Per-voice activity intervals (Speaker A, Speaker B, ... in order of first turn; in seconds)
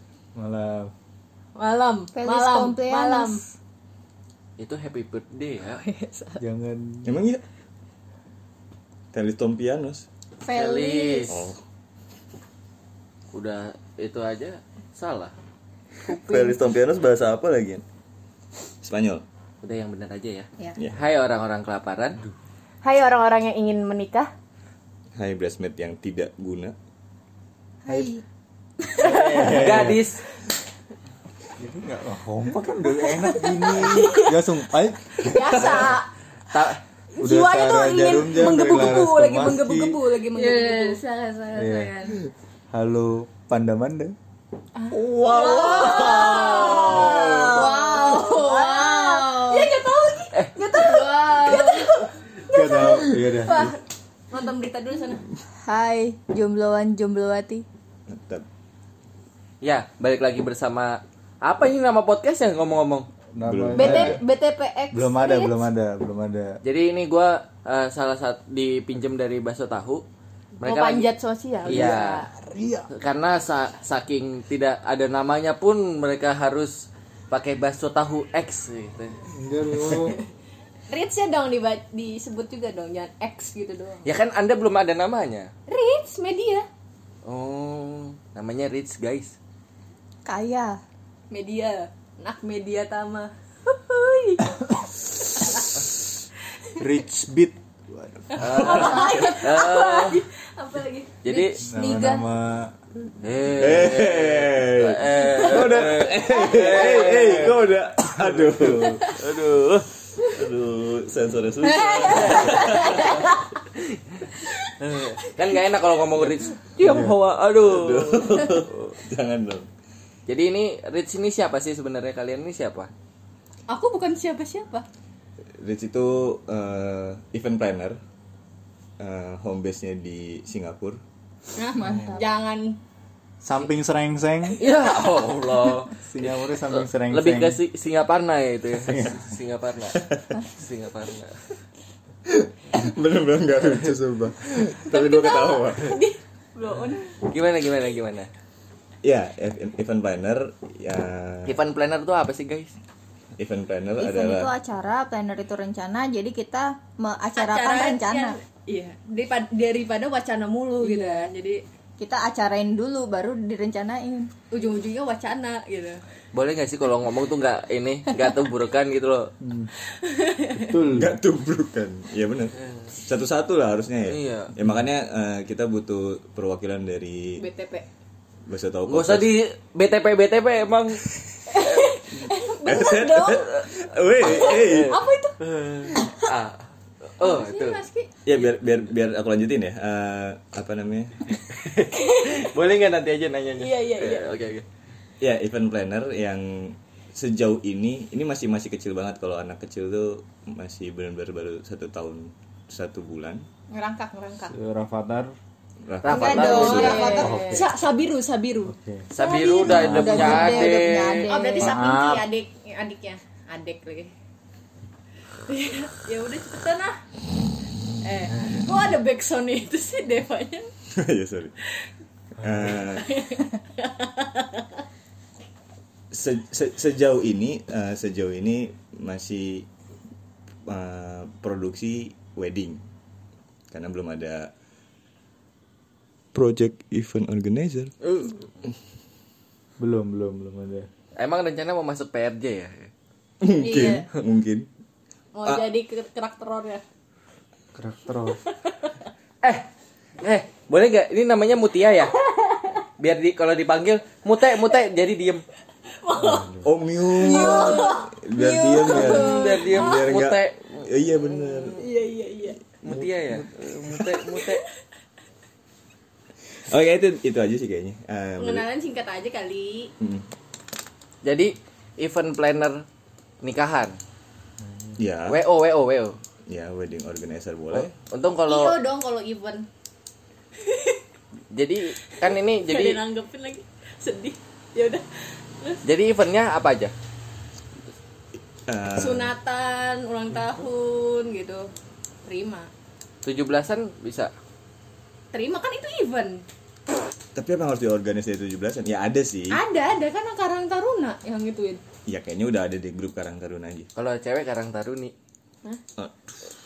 Speaker A: 0.3-0.9, 6.4-7.1, 29.0-30.1, 31.6-36.0, 37.2-40.0, 41.5-42.0, 42.7-44.1, 46.9-47.5, 52.5-53.8, 63.3-64.2, 64.9-66.6, 71.7-72.9, 79.3-80.2, 96.8-98.8, 101.6-102.8, 116.8-117.2, 133.4-134.6, 135.9-137.6, 169.4-169.7, 170.6-171.2, 204.4-205.3, 207.1-207.7, 208.7-209.1, 209.7-210.2, 211.6-212.3, 222.4-222.8, 239.8-240.9, 247.8-248.4
Speaker B: 1.6-3.4, 5.7-6.4, 22.8-24.3, 33.4-34.6, 35.1-36.1, 37.1-41.0, 44.8-53.8, 54.3-55.2, 63.8-65.6, 70.6-72.3, 80.9-84.1, 85.7-86.7, 91.3-95.7, 98.3-101.2, 112.7-113.2, 123.7-124.8, 131.6-132.8, 144.9-147.1, 157.4-161.6, 164.5-166.0, 169.9-170.8, 177.4-177.9, 181.5-183.6, 184.2-185.3, 187.2-188.1, 191.9-192.5, 193.6-194.4, 203.7-204.6, 206.1-214.1, 215.5-217.0, 218.0-220.7, 222.9-224.8, 243.6-244.1, 245.3-246.8, 248.5-248.9, 256.0-259.8, 261.8-262.6, 268.4-269.9, 278.5-279.7, 280.6-281.0, 282.7-285.8, 289.0-291.7, 292.2-292.7, 295.3-296.4, 299.5-301.8
Speaker C: 2.1-3.4, 10.4-11.4, 27.9-28.2, 40.3-42.2, 45.3-49.7, 50.7-51.9, 52.7-53.1, 55.6-57.6, 90.2-90.8, 98.7-99.8, 101.3-102.2, 111.7-113.1, 131.8-132.2, 154.0-158.4, 160.8-161.3, 162.0-164.3, 206.1-207.6, 209.2-211.8, 257.2-259.4
Speaker D: 4.6-5.8, 10.5-11.5, 13.3-15.3, 19.6-22.2, 29.0-30.2, 36.5-36.8, 45.4-46.4, 59.6-63.1, 66.6-70.0, 70.6-71.1, 71.7-72.3, 72.9-79.2, 84.0-85.5, 87.2-89.4, 98.4-100.2, 101.2-101.6, 103.2-107.6, 108.3-109.9, 112.0-118.9, 120.3-122.9, 134.6-141.4, 147.2-148.3, 151.5-152.8, 166.3-169.3, 174.1-174.5, 178.9-181.0, 181.6-181.9, 184.2-187.8, 191.5-194.7, 206.0-207.1, 209.1-211.4, 238.0-238.4, 241.2-242.9, 249.4-249.7, 250.2-252.2, 253.0-255.4, 258.9-261.7, 262.8-264.6, 271.2-272.9, 273.4-274.0, 275.3-276.2, 277.7-278.8, 281.5-283.0, 285.8-286.9, 293.2-294.3, 304.0-305.1
Speaker E: 7.0-7.4, 9.1-10.1, 11.3-11.6, 16.1-17.8, 18.8-19.2, 25.2-26.8, 58.1-58.5, 63.5-64.2, 103.6-109.2, 110.2-113.3, 117.7-119.7, 125.6-128.0, 129.0-131.0, 139.9-140.4, 142.3-146.0, 149.0-151.6, 153.4-154.5, 170.9-177.4, 178.5-179.3, 182.7-185.0, 188.2-191.2, 195.2-203.5, 205.8-207.2, 220.9-221.5, 222.4-223.1, 226.1-229.7, 230.7-232.8, 233.7-234.5, 236.3-237.9, 243.4-244.7, 256.2-261.8, 266.6-268.7, 270.0-270.3, 275.0-275.4, 276.5-277.9, 288.7-289.3, 297.4-299.6, 302.1-303.9, 306.0-306.4